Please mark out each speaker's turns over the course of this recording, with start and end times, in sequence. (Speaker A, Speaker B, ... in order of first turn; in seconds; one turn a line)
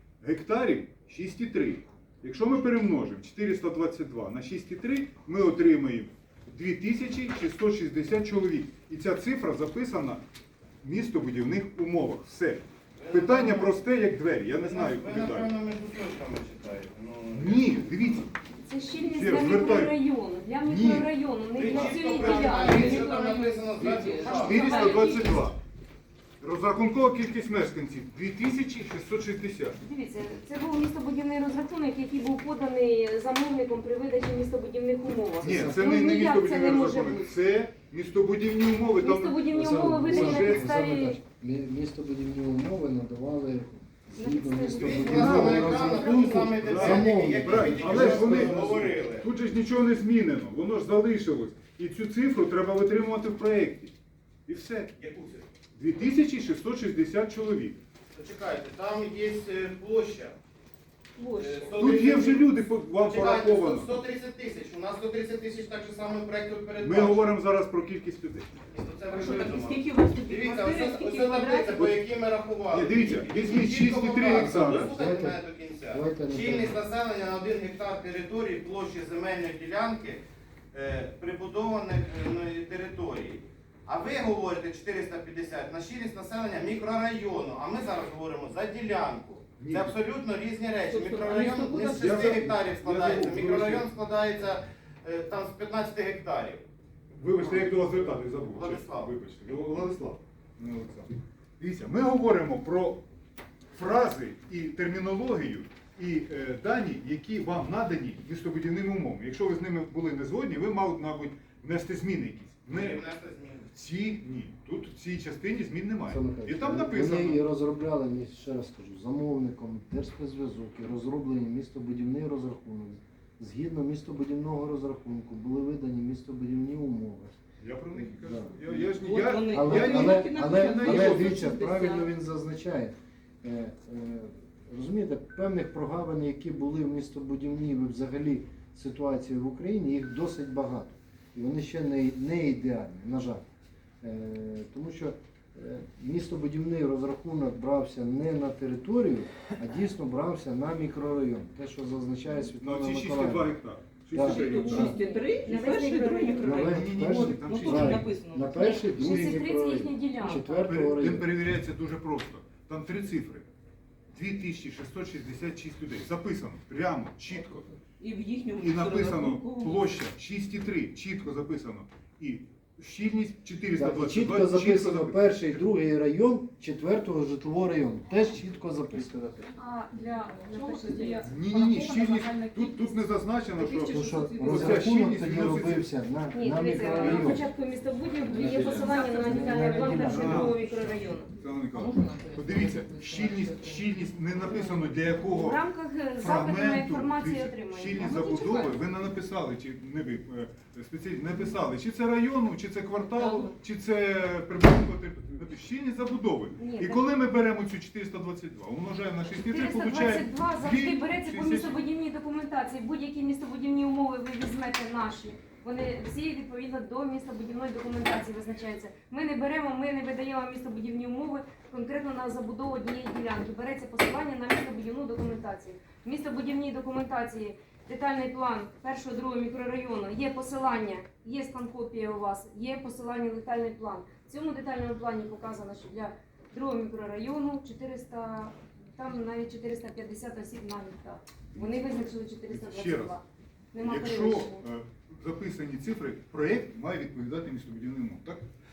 Speaker A: 0.2-10.2
Speaker A: 10.8-15.5
Speaker B: 13.0-13.8
Speaker B: 14.5-18.2
Speaker A: 17.3-18.3
Speaker C: 18.6-25.5
Speaker A: 19.1-20.0
Speaker A: 20.6-21.1
Speaker B: 21.6-24.6
Speaker A: 21.7-22.3
Speaker D: 22.3-25.1
Speaker A: 24.4-25.6
Speaker A: 26.4-29.8
Speaker C: 29.8-37.4
Speaker E: 35.4-35.8
Speaker A: 35.4-39.4
Speaker C: 39.0-41.2
Speaker E: 39.5-49.0
Speaker A: 40.2-40.6
Speaker C: 44.1-45.3
Speaker B: 44.8-49.3
Speaker A: 45.0-46.0
Speaker C: 46.0-46.3
Speaker A: 46.5-53.9
Speaker A: 54.5-54.9
Speaker B: 55.0-55.5
Speaker A: 55.8-57.8
Speaker B: 58.1-60.4
Speaker C: 61.2-61.7
Speaker B: 61.3-67.3
Speaker A: 61.7-63.9
Speaker A: 66.8-68.5
Speaker B: 68.7-96.7
Speaker D: 69.1-71.8
Speaker A: 72.7-74.9
Speaker E: 74.8-76.8
Speaker A: 89.6-90.0
Speaker D: 90.9-92.2
Speaker A: 91.9-93.9
Speaker A: 97.2-103.0
Speaker B: 97.4-99.1
Speaker A: 103.7-113.0
Speaker B: 112.7-113.7
Speaker A: 113.7-117.4
Speaker E: 116.1-127.3
Speaker A: 127.6-131.4
Speaker E: 127.9-129.0
Speaker D: 129.0-132.1
Speaker E: 129.5-143.4
Speaker E: 144.0-153.5
Speaker A: 152.6-154.9
Speaker E: 154.1-155.0
Speaker D: 154.2-159.2
Speaker C: 154.6-156.7
Speaker E: 156.4-161.3
Speaker A: 156.6-158.1
Speaker C: 158.6-160.5
Speaker A: 160.7-163.5
Speaker A: 164.1-167.7
Speaker D: 167.8-170.0
Speaker A: 168.6-175.2
Speaker E: 173.8-179.4
Speaker C: 179.6-181.5
Speaker D: 180.0-183.0
Speaker A: 181.2-185.9
Speaker D: 183.6-184.9
Speaker E: 183.8-187.5
Speaker C: 186.3-191.3
Speaker A: 187.0-187.4
Speaker E: 188.2-190.6
Speaker D: 188.3-190.5
Speaker A: 190.1-190.6
Speaker A: 191.4-195.6
Speaker D: 191.7-195.1
Speaker C: 195.3-198.1
Speaker A: 196.2-211.8
Speaker D: 197.9-198.8
Speaker D: 203.1-203.5
Speaker C: 206.6-207.0
Speaker C: 209.4-243.2
Speaker A: 241.6-242.0
Speaker A: 242.5-243.2
Speaker C: 243.7-244.6
Speaker A: 243.8-248.4